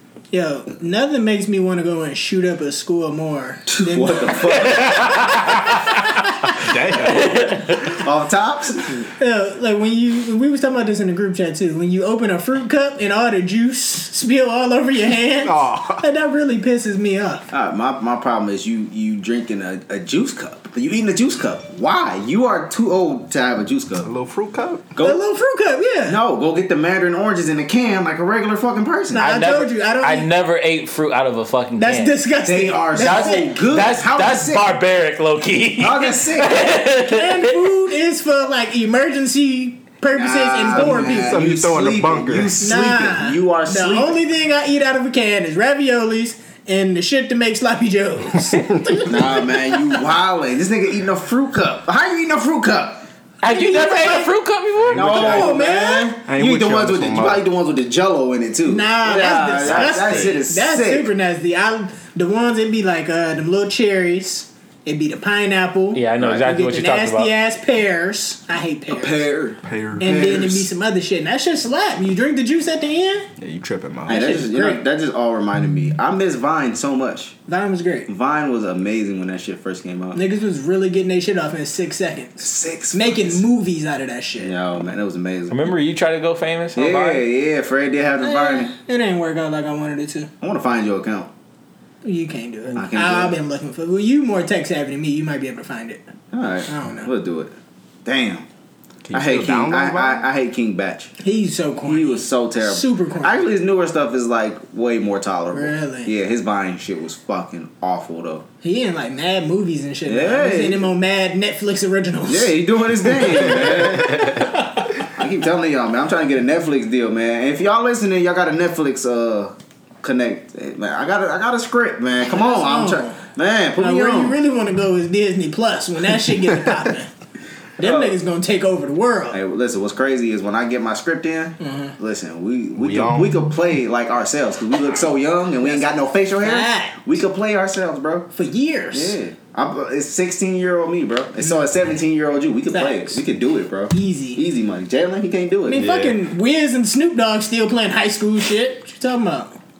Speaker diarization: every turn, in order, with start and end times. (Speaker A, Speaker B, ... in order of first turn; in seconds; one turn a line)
Speaker A: 0.3-4.4
Speaker B: 3.7-5.3
Speaker C: 4.8-5.4
Speaker A: 5.5-5.9
Speaker D: 6.5-8.0
Speaker C: 7.0-7.8
Speaker B: 8.0-9.1
Speaker A: 9.2-17.5
Speaker D: 15.4-16.0
Speaker B: 17.5-24.1
Speaker D: 24.0-24.9
Speaker B: 24.9-25.2
Speaker A: 25.0-26.2
Speaker B: 26.1-29.2
Speaker A: 29.1-30.3
Speaker C: 29.2-32.2
Speaker A: 31.8-33.5
Speaker B: 32.4-34.7
Speaker C: 33.0-37.7
Speaker B: 35.8-36.8
Speaker A: 36.9-41.4
Speaker B: 40.1-44.2
Speaker D: 40.7-42.6
Speaker A: 42.6-50.0
Speaker D: 48.6-49.0
Speaker B: 49.1-53.0
Speaker C: 53.4-55.4
Speaker A: 53.4-54.3
Speaker D: 54.8-55.5
Speaker B: 54.9-61.1
Speaker A: 55.1-56.2
Speaker D: 56.3-57.4
Speaker A: 58.7-69.2
Speaker D: 59.6-60.4
Speaker C: 65.9-67.3
Speaker B: 68.9-70.5
Speaker D: 69.6-70.7
Speaker A: 70.0-73.3
Speaker D: 73.4-74.3
Speaker B: 74.0-77.3
Speaker A: 74.1-74.8
Speaker A: 77.5-78.1
Speaker B: 78.1-80.2
Speaker A: 80.1-84.5
Speaker B: 82.4-83.4
Speaker B: 84.4-85.7
Speaker C: 85.5-87.2
Speaker B: 86.8-88.7
Speaker A: 88.2-90.3
Speaker B: 90.4-91.3
Speaker A: 92.0-96.0
Speaker B: 92.7-93.4
Speaker B: 96.3-97.5
Speaker A: 96.7-97.1
Speaker B: 98.0-98.5
Speaker D: 99.0-100.2
Speaker B: 99.1-101.1
Speaker A: 101.2-103.4
Speaker B: 101.8-108.4
Speaker A: 105.5-106.1
Speaker A: 108.6-112.6
Speaker B: 110.0-110.9
Speaker B: 112.2-114.5
Speaker A: 113.1-113.7
Speaker D: 113.3-114.5
Speaker B: 115.1-124.4
Speaker A: 122.3-123.2
Speaker A: 123.8-127.1
Speaker A: 127.8-129.4
Speaker B: 127.8-128.2
Speaker B: 129.3-138.3
Speaker A: 131.6-131.9
Speaker D: 132.7-133.4
Speaker A: 136.4-137.0
Speaker A: 138.3-139.2
Speaker B: 138.9-145.9
Speaker A: 142.7-143.2
Speaker A: 143.9-144.4
Speaker A: 145.7-149.6
Speaker D: 145.7-146.2